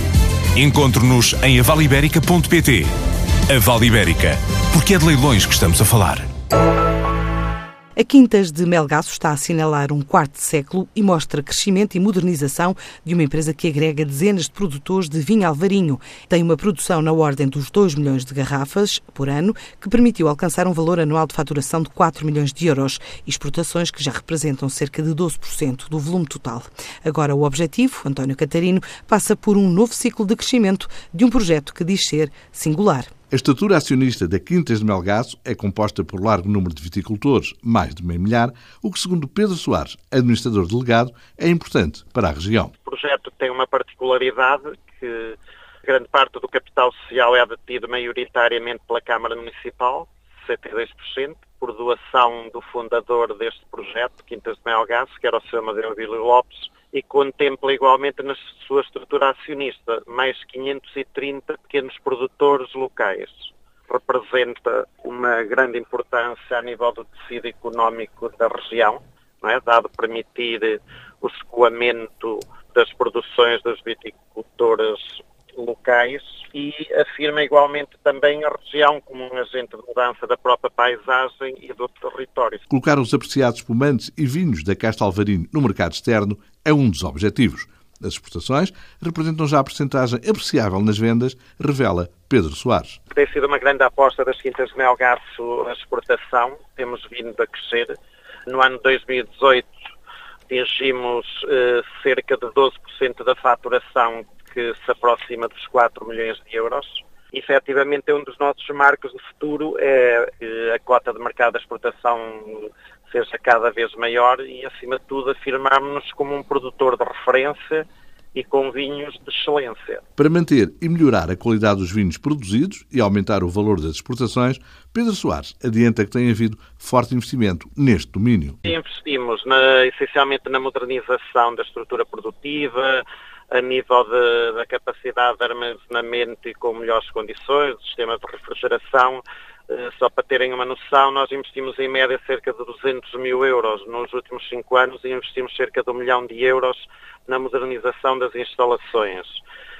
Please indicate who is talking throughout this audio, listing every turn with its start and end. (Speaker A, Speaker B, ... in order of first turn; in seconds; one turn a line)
Speaker A: 0.5-2.9
Speaker A: 3.5-6.3
Speaker B: 8.0-33.1
Speaker C: 33.3-42.7
Speaker D: 42.8-82.6
Speaker C: 82.7-93.0
Speaker D: 93.1-98.0
Speaker D: 98.5-99.7
Speaker D: 100.5-120.0
Speaker C: 120.2-128.6
Speaker D: 128.6-149.4